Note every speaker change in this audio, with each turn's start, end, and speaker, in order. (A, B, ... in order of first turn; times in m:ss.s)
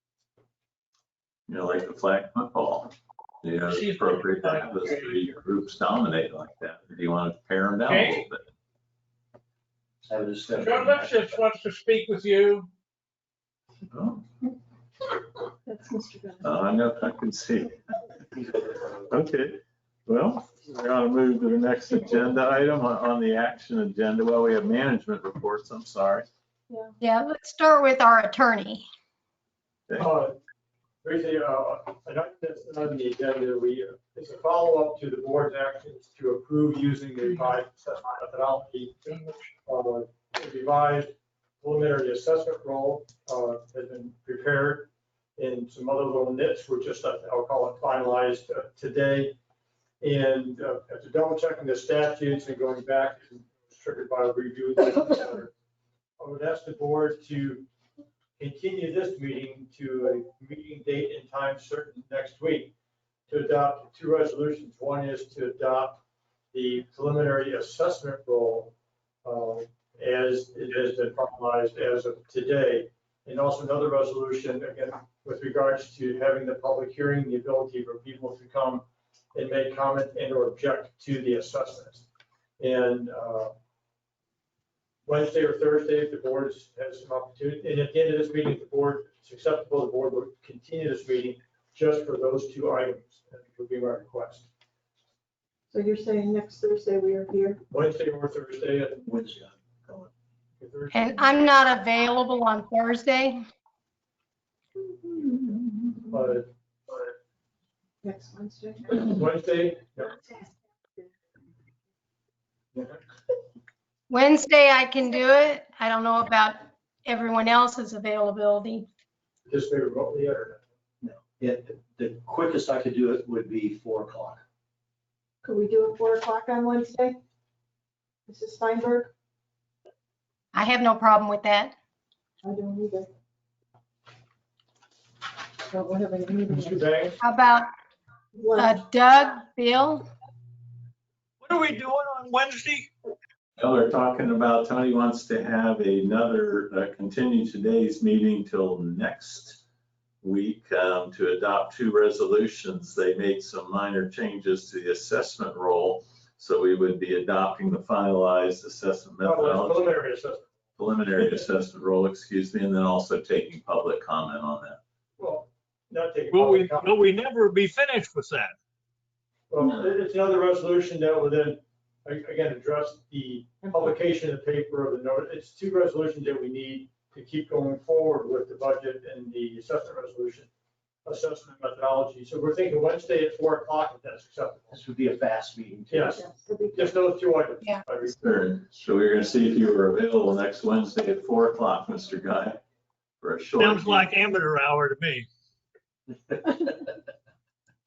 0:01.5-0:08.4 A
0:03.7-0:05.4 B
0:07.8-0:08.3 B
0:10.1-0:11.4 C
0:10.5-0:12.7 B
0:13.9-0:14.2 A
0:15.7-0:16.5 D
0:16.4-0:17.8 A
0:18.4-0:18.9 C
0:19.1-0:26.3 A
0:27.0-0:28.9 E
0:30.0-0:30.4 F
0:31.0-0:39.0 F
0:39.1-0:39.3 B
0:39.7-0:49.4 F
0:50.0-0:55.5 F
0:56.2-0:57.7 F
0:58.4-1:02.7 F
1:03.3-1:06.0 F
1:06.5-1:08.7 F
1:09.2-1:22.1 F
1:22.6-1:23.5 F
1:25.1-1:34.5 F
1:35.7-1:37.6 D
1:37.7-1:39.1 F
1:39.1-1:40.1 C
1:40.6-1:41.5 F
1:40.9-1:43.4 E
1:44.8-1:46.4 D
1:46.1-1:47.0 F
1:48.0-1:49.2 D
1:49.0-1:50.1 F
1:50.0-1:51.1 D
1:52.7-1:53.0 F
1:54.1-1:58.9 E
1:59.5-2:00.6 F
2:01.0-2:04.4 C
2:05.4-2:07.2 D
2:08.3-2:09.1 D
2:10.5-2:11.7 E
2:12.4-2:13.1 D
2:15.7-2:16.9 D
2:16.5-2:17.2 F
2:17.2-2:17.7 E
2:18.3-2:18.8 D
2:18.6-2:20.0 E
2:21.5-2:22.9 B
2:23.6-2:29.6 A
2:30.2-2:40.0 A
2:39.2-2:40.5 F
2:40.8-2:44.8 A
2:41.2-2:41.4 F
2:45.2-2:47.0 F
2:46.3-2:48.6 B
2:49.5-3:00.5 F
2:53.6-2:53.9 D
3:01.0-3:04.7 F
3:04.7-3:06.2 C
3:05.9-3:06.2 F
3:06.2-3:07.0 D
3:06.8-3:08.2 F
3:08.1-3:12.6 A
3:13.2-3:14.2 A
3:13.6-3:15.3 B